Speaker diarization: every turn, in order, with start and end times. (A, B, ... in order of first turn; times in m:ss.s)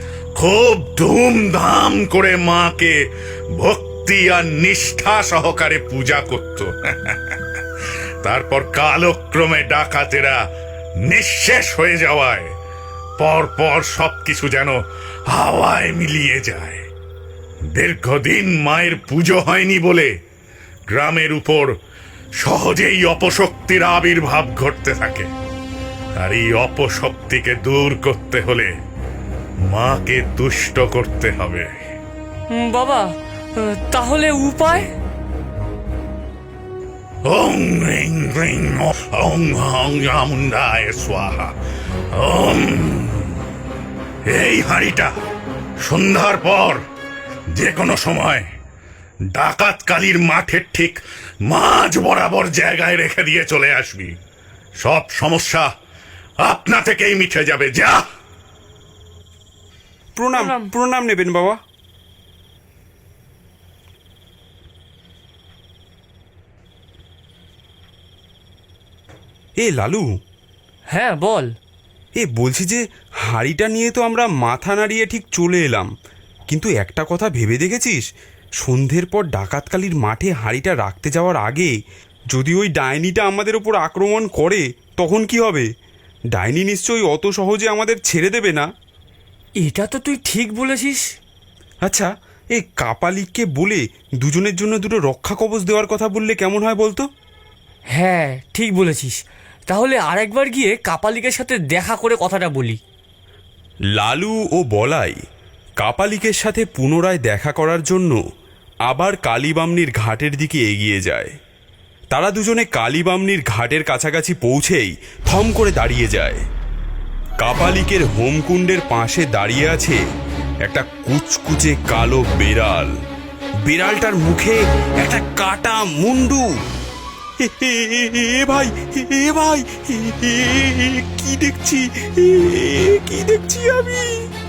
0:00.4-0:02.9 A
0:03.6-0:07.4 A
0:08.2-0:10.4 A
0:11.0-0:12.5 A
0:13.2-0:14.8 A
0:15.3-0:16.8 A
0:17.8-0:20.1 A
0:20.9-0:21.7 A
0:22.4-0:25.3 A
0:26.2-0:28.7 A
0:29.7-0:31.7 A
0:32.5-0:34.9 B
0:37.2-0:41.5 A
0:42.2-0:43.4 A
0:44.3-0:45.1 A
0:45.8-0:46.8 A
0:47.5-0:48.4 A
0:49.3-0:54.1 A
0:54.8-0:55.7 A
0:56.4-0:58.0 A
1:00.2-1:01.6 C
1:00.3-1:00.7 B
1:09.6-1:10.1 C
1:10.9-1:11.5 B
1:12.2-1:15.9 C
1:16.5-1:18.0 C
1:18.6-1:21.7 C
1:22.3-1:25.7 C
1:26.3-1:28.7 C
1:29.6-1:31.0 B
1:31.8-1:37.1 C
1:37.9-1:39.2 B
1:39.7-1:42.8 B
1:43.9-1:45.2 C
1:45.8-1:48.2 C
1:48.9-1:51.3 C
1:52.1-1:56.4 C
1:57.4-2:00.0 C
2:00.6-2:02.9 C
2:03.6-2:06.4 C
2:07.4-2:14.2 C